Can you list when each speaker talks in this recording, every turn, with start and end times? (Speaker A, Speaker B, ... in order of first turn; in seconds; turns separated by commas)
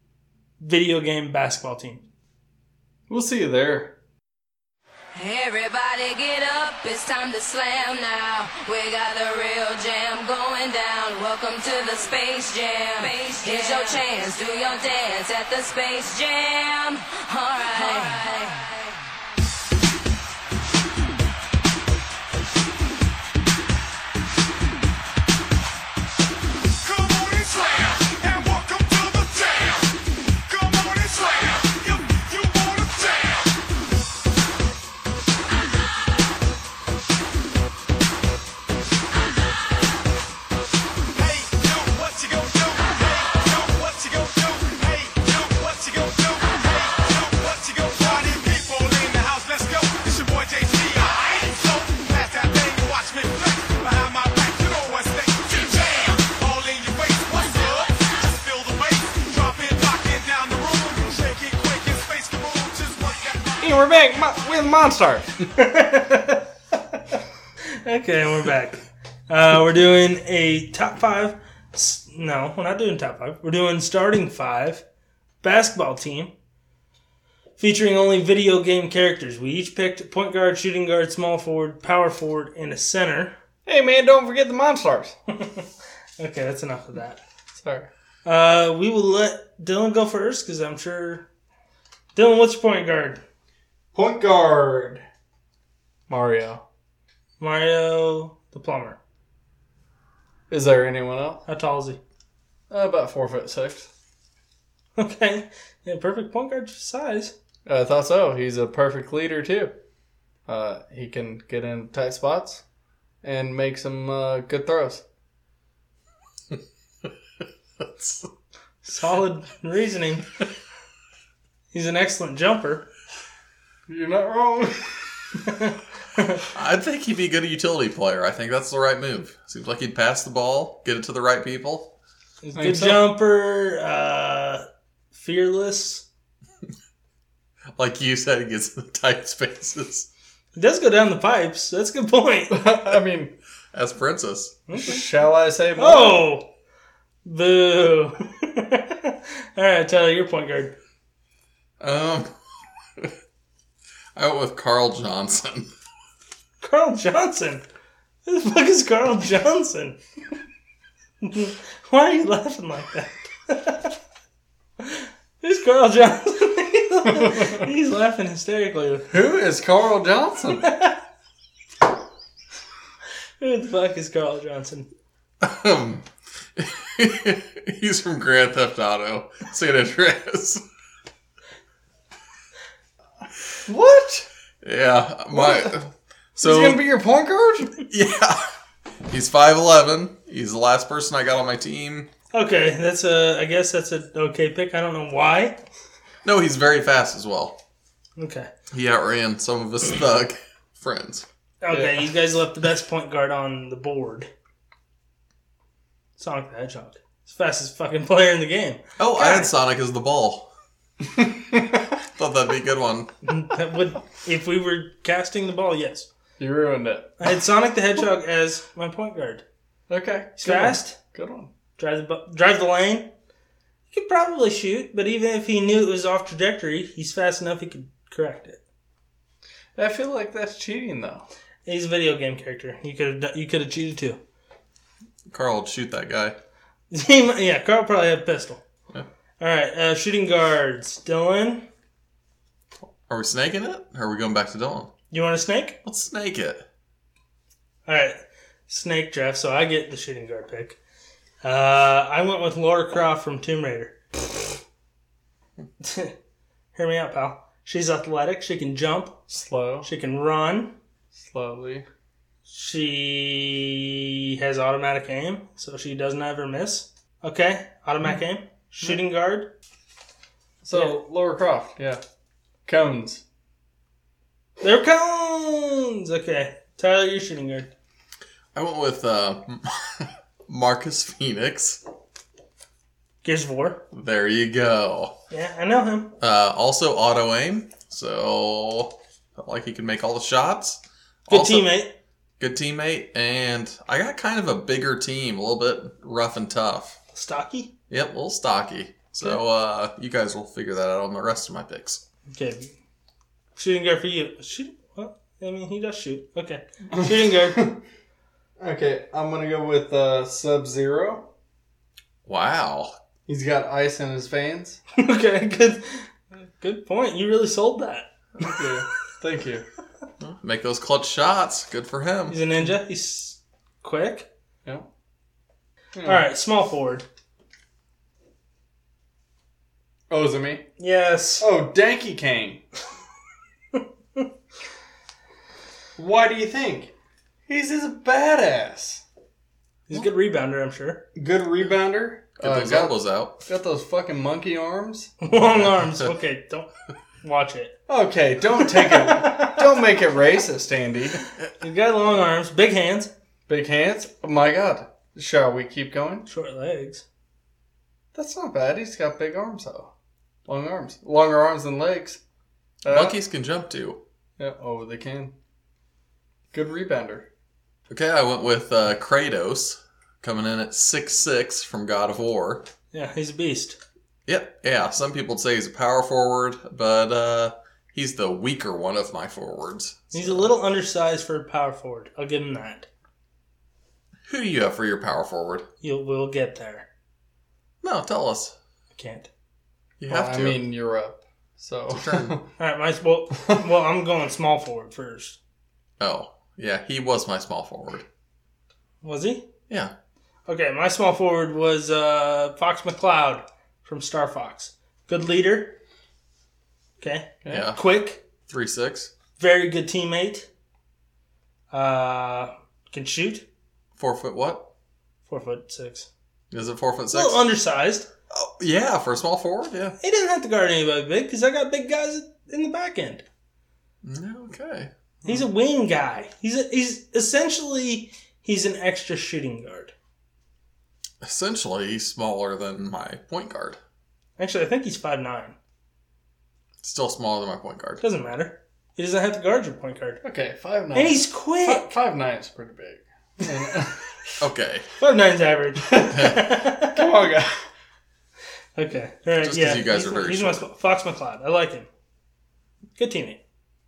Speaker A: 0.6-2.0, Speaker B: 3.1-4.0, Speaker C: 5.1-18.7, Speaker D: 26.8-33.5, Speaker D: 41.1-63.7, Speaker B: 63.6-65.3, Speaker A: 65.5-66.5, Speaker A: 67.8-74.8, Speaker A: 75.4-76.3, Speaker A: 77.6-83.3, Speaker B: 83.7-85.2, Speaker A: 85.3-85.7, Speaker A: 86.2-87.2, Speaker B: 87.5-87.9, Speaker A: 88.2-91.3, Speaker A: 92.1-93.2, Speaker B: 93.9-95.0, Speaker B: 96.1-96.6, Speaker A: 97.4-99.0, Speaker B: 100.5-101.4, Speaker A: 101.5-102.0, Speaker B: 102.7-103.9, Speaker A: 105.0-107.3, Speaker B: 107.7-109.8, Speaker B: 110.5-112.6, Speaker B: 113.2-115.0, Speaker E: 117.8-118.3, Speaker A: 118.8-120.3, Speaker A: 121.7-122.9, Speaker B: 123.9-125.4, Speaker A: 125.5-126.4, Speaker E: 126.5-131.9, Speaker A: 132.4-136.1, Speaker B: 132.6-133.1, Speaker E: 137.8-140.1, Speaker A: 140.6-142.6, Speaker B: 142.5-143.3, Speaker E: 143.7-144.6, Speaker A: 144.7-145.0, Speaker B: 144.8-146.3, Speaker A: 145.8-146.5, Speaker A: 147.2-150.8, Speaker E: 151.8-152.3, Speaker E: 154.2-155.7, Speaker A: 156.6-157.6, Speaker A: 158.2-160.0, Speaker A: 161.2-163.9, Speaker A: 164.8-169.2, Speaker B: 169.1-170.7, Speaker A: 170.6-171.0, Speaker A: 173.4-174.9, Speaker E: 175.4-176.1, Speaker E: 176.6-180.6, Speaker B: 183.7-184.3, Speaker E: 184.6-186.8, Speaker B: 185.3-185.8, Speaker B: 186.4-187.7, Speaker E: 187.8-188.4, Speaker E: 189.1-192.1, Speaker A: 192.3-195.6, Speaker E: 196.2-197.6, Speaker A: 198.2-198.5, Speaker E: 198.7-201.3, Speaker A: 201.6-204.3, Speaker B: 201.7-202.1, Speaker A: 206.2-209.5, Speaker E: 209.0-210.5, Speaker B: 211.2-211.6, Speaker E: 212.1-213.1, Speaker A: 213.3-216.1, Speaker B: 216.4-217.2, Speaker A: 217.2-219.4, Speaker B: 219.9-221.5, Speaker A: 220.4-221.0, Speaker A: 221.8-223.1, Speaker A: 223.9-228.6, Speaker B: 229.8-231.3, Speaker A: 231.7-234.2, Speaker E: 235.3-236.4, Speaker A: 236.9-238.6, Speaker A: 239.4-241.7, Speaker E: 243.1-244.9, Speaker A: 245.1-245.8, Speaker E: 245.8-246.6, Speaker A: 247.9-248.2, Speaker A: 248.7-250.8, Speaker A: 251.4-254.0, Speaker A: 255.8-256.1, Speaker A: 256.7-259.2, Speaker B: 259.3-259.9, Speaker A: 259.8-260.7, Speaker B: 261.1-261.9, Speaker A: 262.5-269.5, Speaker B: 270.6-272.0, Speaker A: 270.7-271.0, Speaker B: 272.6-273.2, Speaker A: 274.6-277.7, Speaker E: 278.5-281.8, Speaker A: 283.2-283.8, Speaker E: 283.9-285.1, Speaker A: 285.3-286.1, Speaker E: 286.2-291.7, Speaker A: 291.3-291.9, Speaker E: 292.4-297.0, Speaker A: 297.1-297.7, Speaker E: 297.9-302.0, Speaker A: 302.3-302.7, Speaker A: 303.6-307.7, Speaker B: 306.9-307.8, Speaker B: 308.6-311.3, Speaker E: 312.3-312.9, Speaker B: 313.3-314.8, Speaker A: 314.9-318.5, Speaker B: 318.4-319.6, Speaker E: 320.2-322.4, Speaker A: 322.3-324.3, Speaker B: 325.9-326.3, Speaker A: 326.0-327.1, Speaker B: 330.1-330.7, Speaker A: 330.8-331.5, Speaker B: 331.4-332.6, Speaker A: 333.8-334.2, Speaker B: 336.0-336.9, Speaker B: 337.5-339.0, Speaker A: 339.9-341.1, Speaker B: 341.1-345.1, Speaker E: 342.4-343.4, Speaker A: 345.2-346.7, Speaker A: 347.2-347.8, Speaker B: 347.9-351.2, Speaker A: 348.8-349.6, Speaker A: 351.6-353.1, Speaker B: 353.5-356.3, Speaker A: 356.3-357.0, Speaker B: 358.1-359.9, Speaker B: 360.4-362.2, Speaker B: 362.8-363.1, Speaker E: 362.9-364.0, Speaker B: 364.4-365.3, Speaker B: 366.5-367.3, Speaker E: 367.9-372.7, Speaker A: 372.9-373.8, Speaker E: 374.3-380.5, Speaker A: 380.1-382.9, Speaker E: 384.3-385.6, Speaker A: 385.8-386.9, Speaker E: 387.8-388.6, Speaker A: 388.9-389.3, Speaker E: 390.0-390.7, Speaker B: 390.1-392.4, Speaker E: 391.9-392.4, Speaker A: 392.6-395.4, Speaker E: 396.0-398.1, Speaker A: 399.0-399.5, Speaker A: 400.5-405.8, Speaker A: 407.0-408.2, Speaker E: 407.5-407.8, Speaker E: 408.5-409.1, Speaker A: 409.4-410.5, Speaker A: 411.7-413.4, Speaker E: 414.0-414.7, Speaker A: 415.3-416.1, Speaker E: 416.5-417.5, Speaker A: 417.1-418.1, Speaker E: 418.3-419.9, Speaker A: 420.0-423.2, Speaker E: 424.0-424.9, Speaker A: 425.2-429.9, Speaker E: 431.2-433.8, Speaker A: 434.4-435.6, Speaker E: 436.8-438.0, Speaker A: 438.0-440.2, Speaker B: 440.2-444.3, Speaker A: 440.9-441.9, Speaker E: 444.4-444.9, Speaker A: 445.0-447.1, Speaker B: 445.9-446.2, Speaker E: 446.1-446.6, Speaker B: 446.8-447.6, Speaker A: 448.8-451.9, Speaker E: 449.4-450.6, Speaker A: 453.0-453.4